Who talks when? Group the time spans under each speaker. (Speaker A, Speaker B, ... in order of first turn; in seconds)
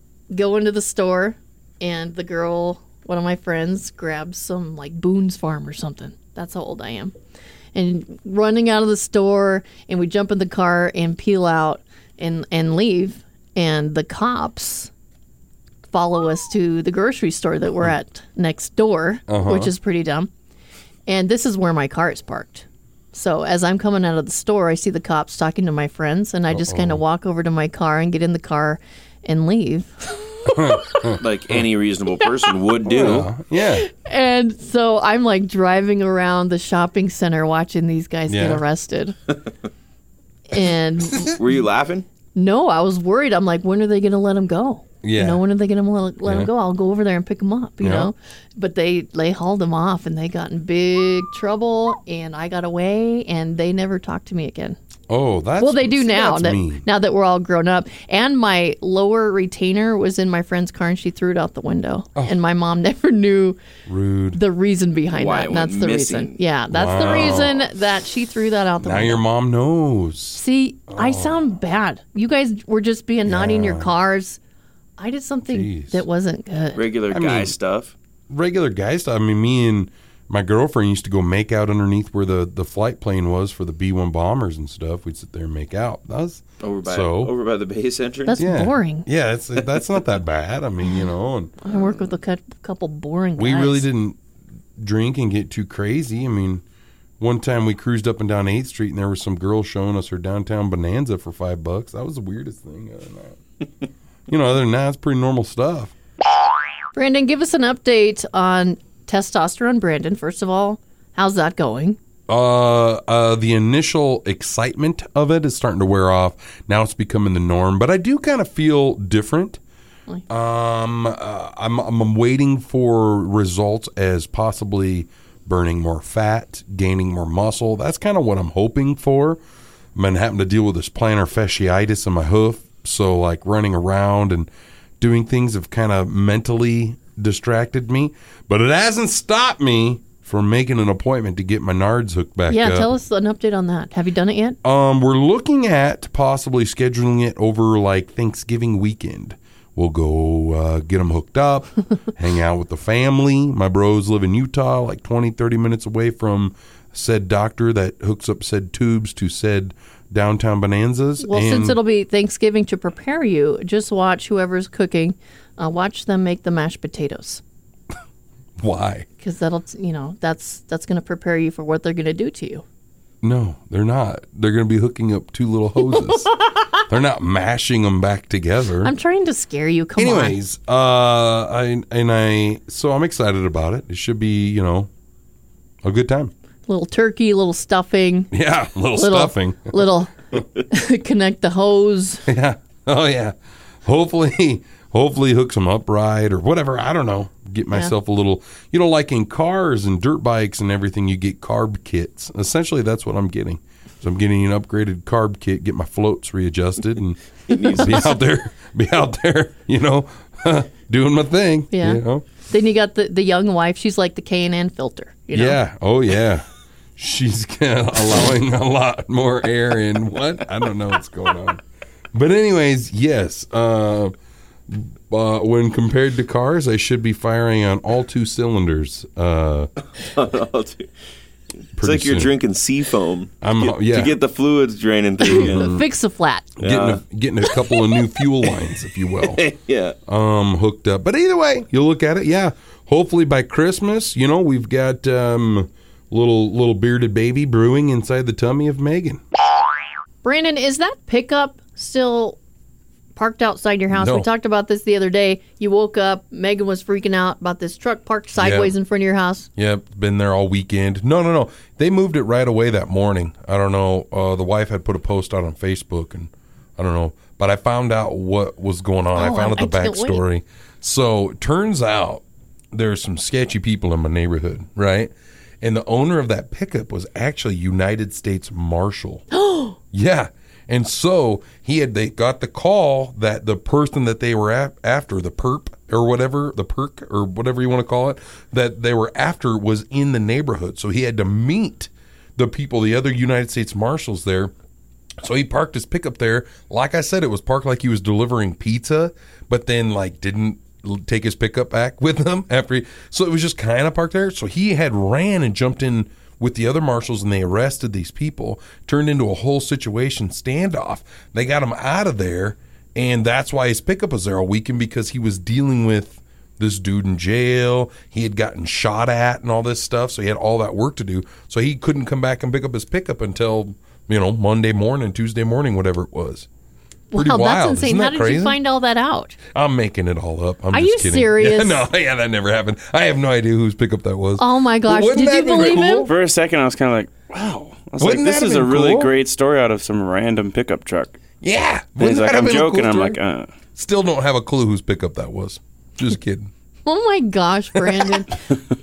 Speaker A: 0.3-7.1, 7.8-14.9, 15.9-20.3, 21.1-30.9, 33.6-39.2, 40.5-41.4, 42.4-54.8, 55.6-63.6, 64.3-69.2, 70.3-74.4, 75.0-76.8, 88.3-89.1, 91.6-93.9, 107.0-112.0, 142.5-144.6, 161.2-167.4, 169.2-172.6, 178.8-180.4, 186.7-188.3, 188.9-190.1, 190.7-192.2, 211.7-215.6, 235.3-236.5, 250.2-252.4, 253.2-259.5, 269.1-270.2, 279.3-279.8, 327.1-329.4, 330.7-331.8, 334.4-336.1, 346.9-348.4
Speaker B: 19.3-19.7, 26.5-27.0, 30.5-31.6, 32.9-33.9, 38.3-38.6, 45.0-45.4, 46.2-46.5, 47.8-48.1, 55.1-56.8, 63.9-64.4, 66.7-67.6, 68.8-71.4, 73.3-73.9, 75.5-76.0, 77.1-77.5, 78.3-87.3, 88.4-91.5, 93.4-94.2, 94.8-96.6, 97.2-103.4, 104.3-105.9, 112.3-119.6, 120.3-129.4, 129.9-142.9, 144.6-161.8, 168.6-169.1, 173.2-176.3, 176.9-178.9, 180.0-184.9, 185.8-186.3, 188.3-189.8, 192.3-212.2, 215.3-216.5, 217.0-224.1, 224.7-229.7, 231.8-232.3, 233.4-234.2, 235.3-235.8, 236.6-239.5, 240.1-249.2, 253.9-254.3, 258.4-258.7, 259.6-279.2, 279.9-294.5, 295.2-326.5, 327.1-328.6, 329.5-336.1, 338.0-339.1, 341.4-343.2, 343.8-346.5
Speaker C: 31.2-33.3, 41.2-42.1, 65.1-66.4, 76.8-78.0, 86.6-88.4, 207.5-208.1, 230.0-230.9, 231.8-235.8, 236.6-237.0, 239.2-240.0, 336.1-341.2, 342.0-343.5